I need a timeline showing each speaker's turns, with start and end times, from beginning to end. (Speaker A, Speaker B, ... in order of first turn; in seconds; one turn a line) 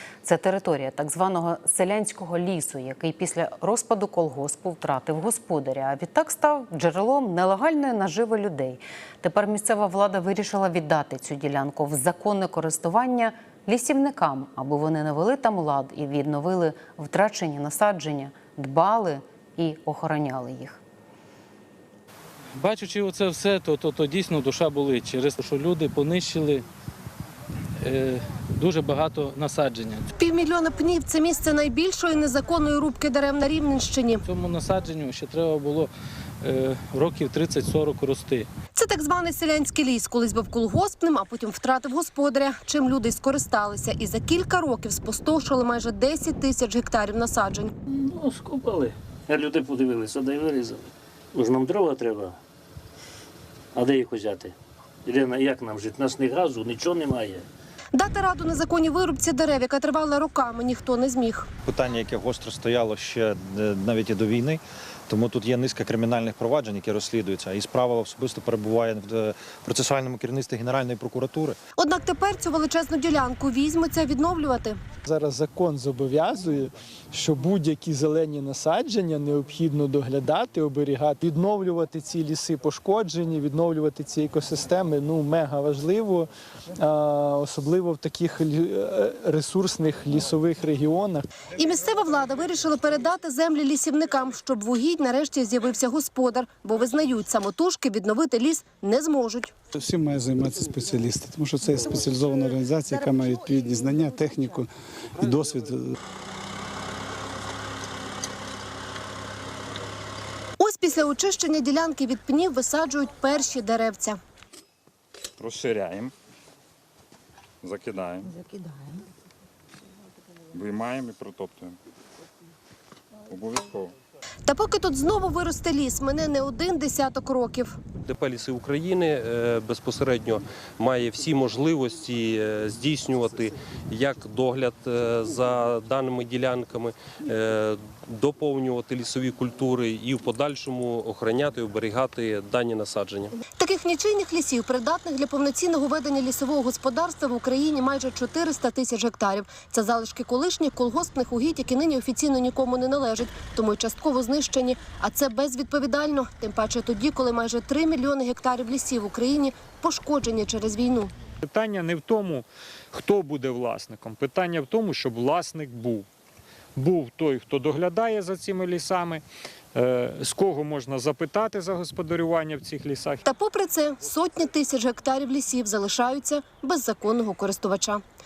Speaker A: 0.2-20.8
Speaker B: 22.6-26.6
Speaker B: 27.8-30.1
Speaker C: 30.2-34.2
Speaker B: 34.3-35.9
Speaker B: 36.4-38.5
Speaker C: 38.8-47.7
Speaker D: 47.9-50.8
Speaker D: 51.3-52.4
Speaker D: 53.8-57.5
Speaker C: 57.9-61.5
Speaker E: 61.7-71.6
Speaker C: 71.8-74.8
Speaker F: 75.0-86.3
Speaker F: 86.8-91.2
Speaker C: 91.6-99.5
Speaker G: 99.8-104.7
Speaker G: 105.2-105.9
Speaker C: 110.6-114.2
Speaker H: 115.4-116.1
Speaker H: 117.6-118.4
Speaker H: 120.5-121.8
Speaker H: 123.3-123.9
Speaker C: 124.5-127.8
Speaker I: 128.0-143.3
Speaker C: 143.6-161.1
Speaker J: 161.4-166.1
Speaker J: 166.8-169.2
Speaker J: 169.7-173.2
Speaker C: 173.2-178.0